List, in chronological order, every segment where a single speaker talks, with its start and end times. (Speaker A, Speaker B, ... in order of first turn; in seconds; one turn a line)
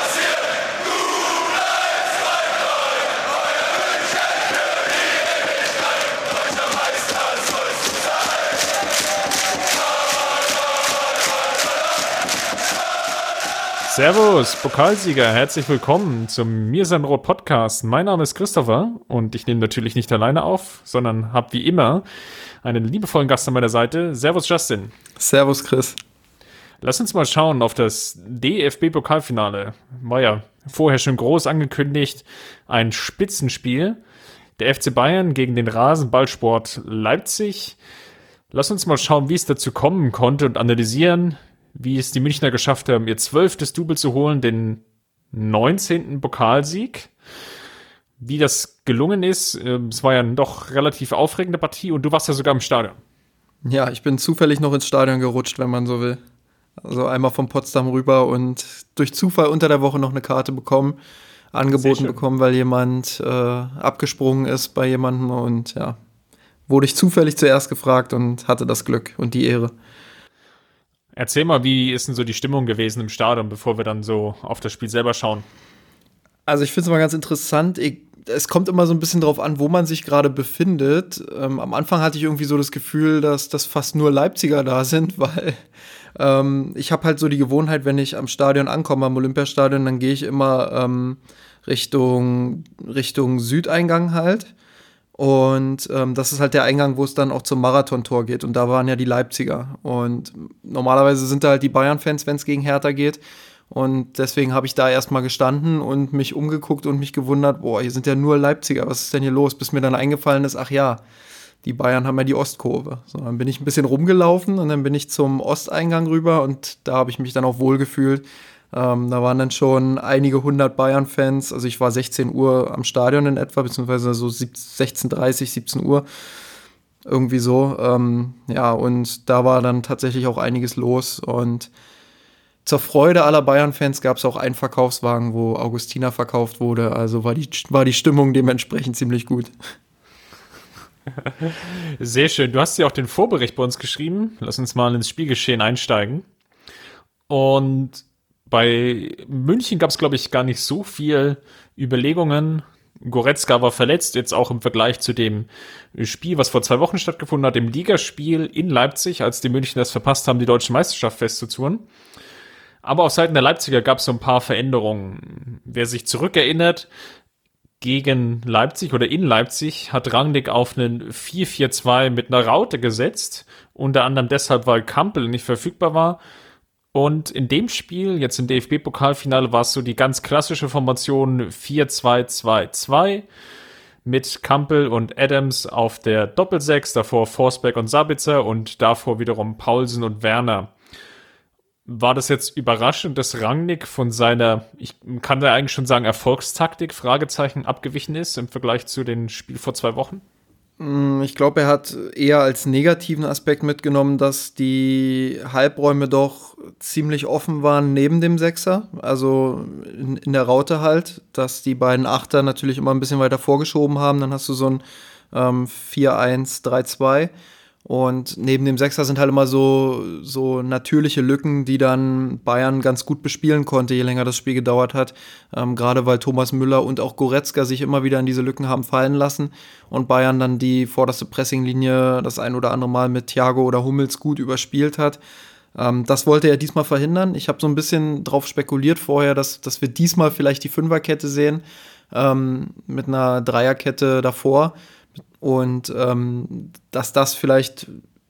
Speaker A: 13.9-22.1
Speaker A: 22.6-24.9
Speaker B: 25.2-26.0
Speaker A: 26.8-34.0
Speaker A: 34.6-37.8
Speaker A: 38.5-47.1
Speaker A: 48.2-53.0
Speaker B: 53.6-56.2
Speaker B: 56.8-61.0
Speaker B: 61.5-66.0
Speaker A: 61.8-62.2
Speaker B: 66.7-69.7
Speaker A: 71.2-75.5
Speaker B: 76.5-85.6
Speaker B: 86.2-94.5
Speaker B: 95.2-111.0
Speaker B: 111.6-126.0
Speaker B: 127.1-131.7
Speaker B: 132.7-139.5
Speaker A: 141.2-146.3
Speaker A: 147.3-161.8
Speaker A: 162.8-166.9
Speaker A: 167.8-176.2
Speaker A: 176.9-183.2
Speaker A: 184.1-190.7
Speaker A: 191.9-200.2
Speaker B: 200.8-217.3
Speaker B: 217.8-235.2
Speaker B: 235.8-244.7
Speaker B: 245.4-247.9